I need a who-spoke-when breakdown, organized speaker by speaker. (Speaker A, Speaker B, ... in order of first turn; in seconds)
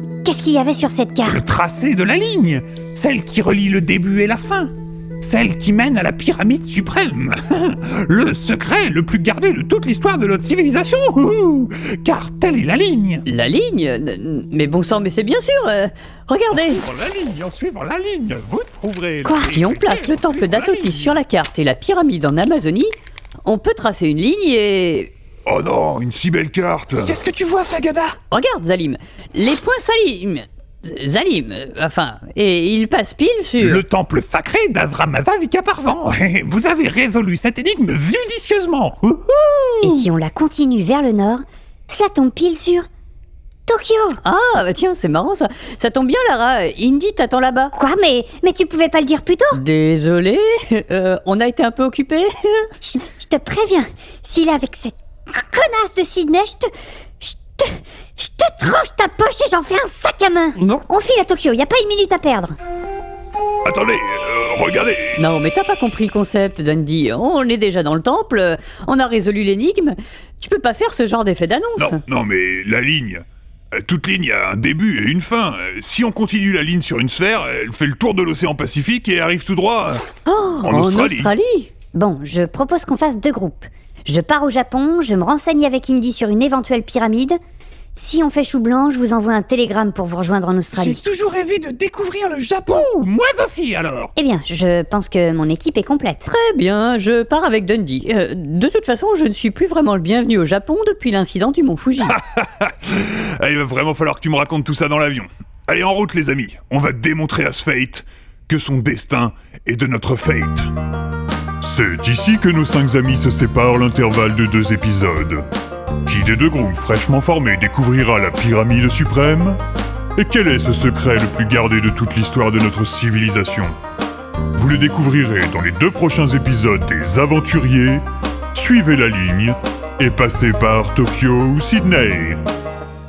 Speaker A: 0.2-1.4, 19.2-19.6, 39.8-42.9, 43.7-44.2, 47.7-49.6, 52.8-56.7, 57.2-62.6, 81.9-87.4, 88.0-91.0, 94.2-96.3
Speaker B: 1.3-13.2, 17.6-19.4, 33.6-40.0, 92.7-94.1
Speaker C: 13.3-16.8, 19.4-22.9, 23.4-25.1, 28.3-33.8, 44.2-47.8, 49.5-52.7, 65.2-72.0, 80.3-81.7, 96.3-102.2
Speaker D: 16.6-17.8, 19.5-21.1, 25.5-27.2, 63.6-65.2, 71.8-80.0, 80.6-81.3, 102.0-110.7, 111.6-115.5, 116.1-119.6, 120.2-123.7, 124.6-132.4
Speaker E: 27.1-28.2, 90.7-92.8